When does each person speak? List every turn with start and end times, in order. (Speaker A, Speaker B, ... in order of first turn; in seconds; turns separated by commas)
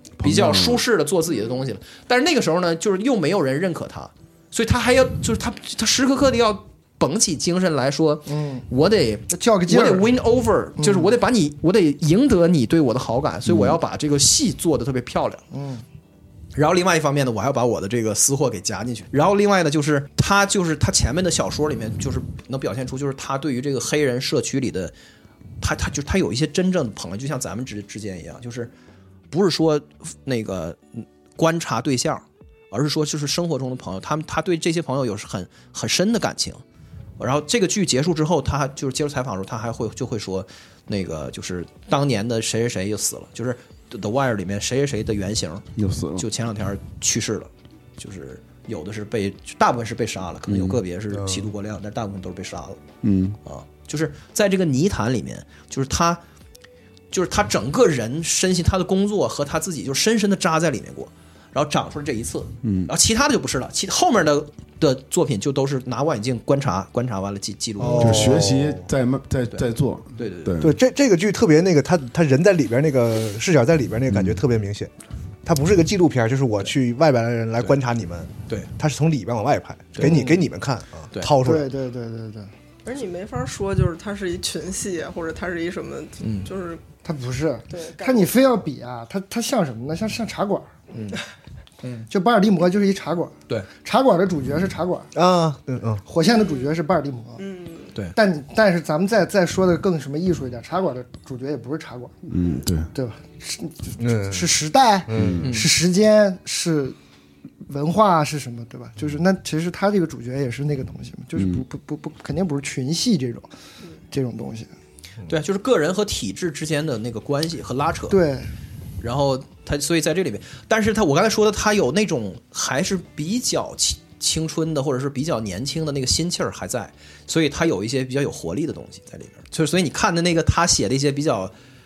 Speaker A: 0.2-0.8, Speaker B: 0.2-15.4, Speaker C: 8.3-8.6, Speaker C: 9.3-10.1, Speaker C: 10.8-11.1, Speaker A: 13.4-13.8, Speaker C: 15.5-15.8, Speaker B: 16.5-24.9, Speaker B: 25.6-28.7, Speaker B: 29.3-36.6, Speaker B: 37.2-45.6, Speaker A: 45.8-46.2, Speaker B: 46.2-52.8, Speaker A: 50.5-50.8, Speaker A: 53.0-53.4, Speaker B: 53.4-56.2, Speaker B: 57.1-68.4, Speaker A: 62.6-62.9, Speaker D: 67.8-68.8, Speaker A: 68.0-70.8, Speaker B: 69.5-70.6, Speaker D: 70.6-74.9, Speaker A: 74.1-74.4, Speaker D: 75.4-81.7, Speaker B: 79.9-80.2, Speaker C: 80.0-80.4, Speaker C: 81.4-82.5, Speaker E: 82.8-86.8, Speaker B: 86.2-86.5, Speaker C: 87.0-90.7, Speaker E: 87.7-88.3, Speaker B: 90.9-91.2, Speaker B: 91.8-92.1, Speaker C: 92.1-95.1, Speaker D: 95.1-96.0, Speaker C: 96.0-97.4, Speaker E: 96.2-96.7, Speaker E: 97.4-97.9, Speaker C: 98.2-102.2, Speaker A: 102.3-102.9, Speaker C: 102.9-107.0, Speaker D: 104.0-104.5, Speaker D: 105.1-105.4, Speaker A: 105.1-105.5, Speaker B: 105.4-105.7, Speaker C: 107.7-113.5, Speaker A: 111.3-111.6, Speaker C: 114.1-114.7, Speaker B: 115.3-118.2, Speaker C: 118.1-118.5, Speaker B: 119.0-131.5